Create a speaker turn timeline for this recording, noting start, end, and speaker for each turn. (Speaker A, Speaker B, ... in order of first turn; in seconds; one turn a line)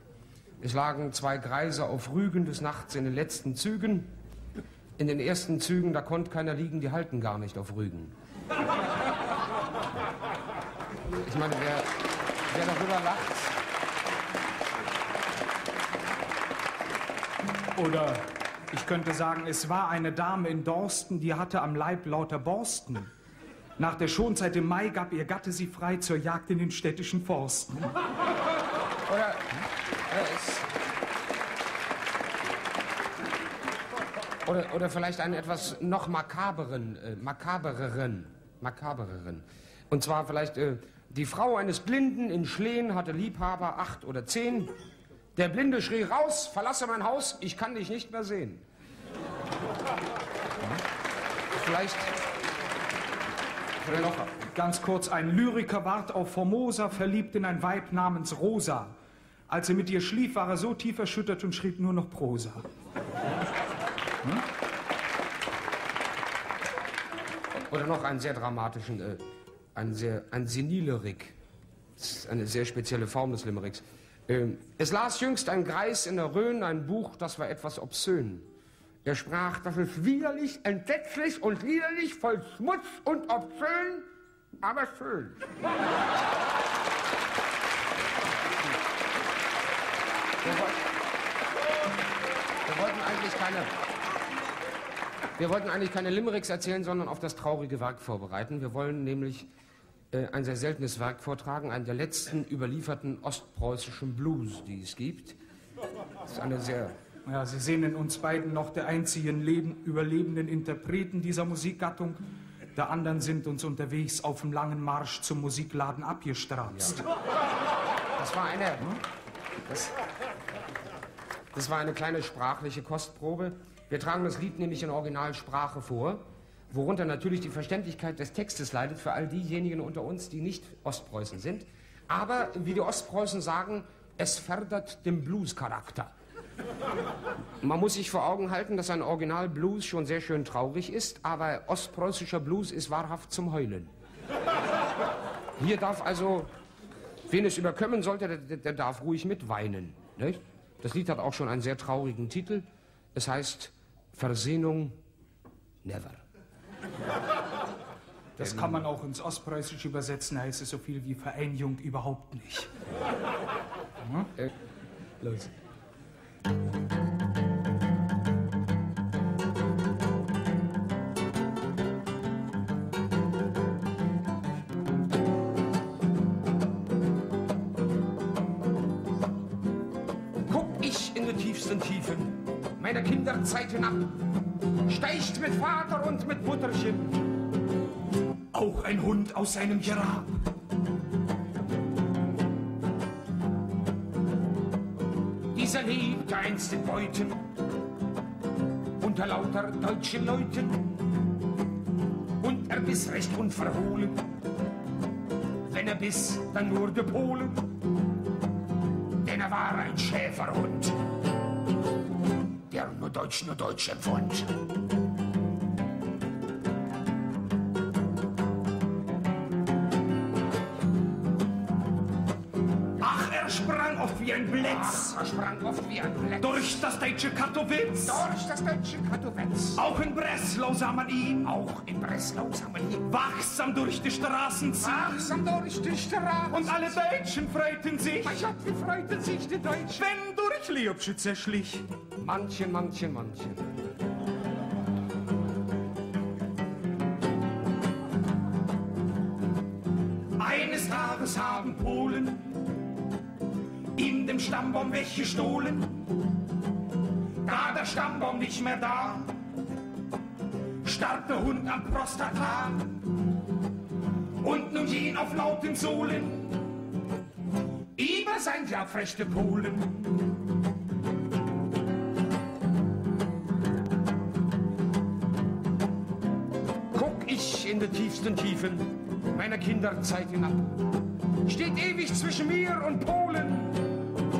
Speaker A: 0.6-4.1
Speaker A: 5.0-8.1
Speaker A: 11.2-11.9
Speaker A: 12.5-13.6
Speaker B: 17.8-23.1
Speaker B: 23.8-27.9
Speaker A: 29.1-29.4
Speaker A: 30.1-30.7
Speaker A: 34.5-44.7
Speaker A: 45.4-48.6
Speaker A: 51.5-52.1
Speaker A: 53.8-54.4
Speaker B: 54.5-58.9
Speaker B: 59.5-62.6
Speaker A: 67.7-69.2
Speaker A: 69.7-71.3
Speaker A: 72.0-78.4
Speaker A: 79.0-84.0
Speaker A: 84.6-85.4
Speaker A: 90.4-90.8
Speaker A: 92.7-93.7
Speaker A: 95.4-99.5
Speaker A: 100.1-105.3
Speaker A: 106.2-106.9
Speaker B: 107.2-112.2
Speaker B: 112.7-117.0
Speaker A: 116.7-117.0
Speaker A: 118.2-119.0
Speaker A: 119.7-119.9
Speaker A: 121.5-136.1
Speaker A: 137.6-143.9
Speaker A: 145.6-146.5
Speaker A: 147.3-154.9
Speaker A: 155.8-156.2
Speaker B: 158.4-162.7
Speaker A: 158.4-158.7
Speaker B: 164.0-164.3
Speaker A: 180.5-184.2
Speaker A: 184.8-187.3
Speaker B: 188.5-190.4
Speaker A: 195.5-197.4
Speaker A: 199.0-201.0
Speaker A: 202.4-204.2
Speaker A: 205.7-207.7
Speaker A: 209.2-211.0
Speaker A: 212.7-214.6
Speaker B: 223.0-225.1
Speaker A: 224.7-226.9
Speaker B: 226.4-228.2
Speaker A: 228.0-229.8
Speaker B: 229.8-231.5
Speaker A: 231.4-233.1
Speaker B: 233.1-235.4
Speaker A: 234.8-236.9
Speaker B: 236.5-238.5
Speaker A: 238.2-240.1
Speaker B: 239.9-241.8
Speaker A: 242.2-243.6
Speaker B: 250.4-252.6
Speaker B: 253.9-256.1
Speaker A: 257.4-259.2
Speaker B: 257.6-259.2
Speaker B: 260.8-263.0
Speaker B: 264.4-266.6
Speaker A: 267.9-270.2
Speaker A: 276.9-280.8
Speaker A: 281.4-283.8